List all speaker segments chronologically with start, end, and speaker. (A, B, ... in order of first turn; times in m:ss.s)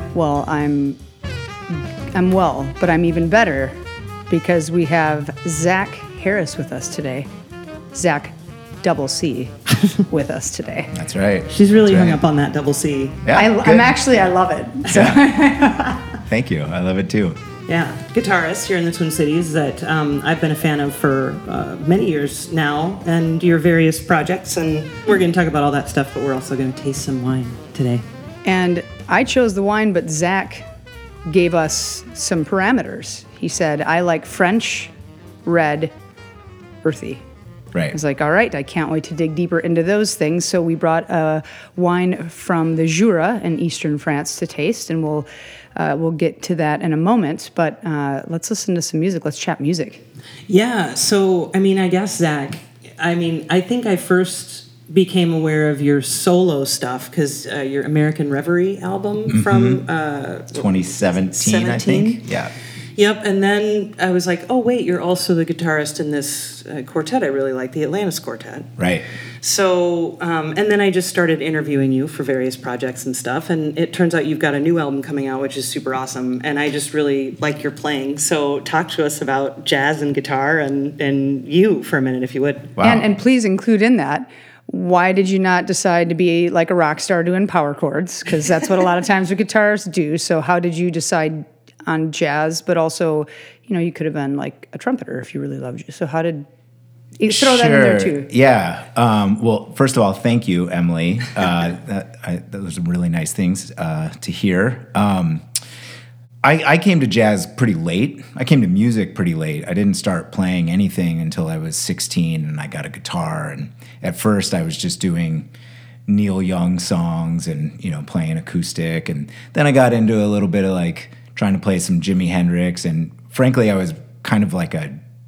0:00.1-0:01.0 A
0:01.7-0:03.8 A
0:04.3-0:07.3 A
0:07.9-0:10.9 A
0:10.9-0:12.2 B
0:11.5-0:13.2 C
0:13.2-0:14.0 B
0:13.4-0:16.0 A
0:14.9-0:15.3 B
0:16.3-0:17.4 B
0:17.7-0:28.0 C
0:28.4-0:30.6 A
0:31.3-0:34.9 A
0:35.4-0:35.9 A
0:36.8-0:37.2 A
0:37.9-0:50.0 A
0:50.5-1:02.2 C
0:59.3-0:59.8 B
1:00.5-1:02.5 B
1:03.0-1:08.7 C
1:08.8-1:09.1 B
1:09.4-1:22.8 C
1:22.8-1:23.0 B
1:22.8-1:36.5 A
1:37.2-1:38.3 A
1:37.2-1:45.4 B
1:46.4-1:55.5 B
1:56.1-2:04.9 B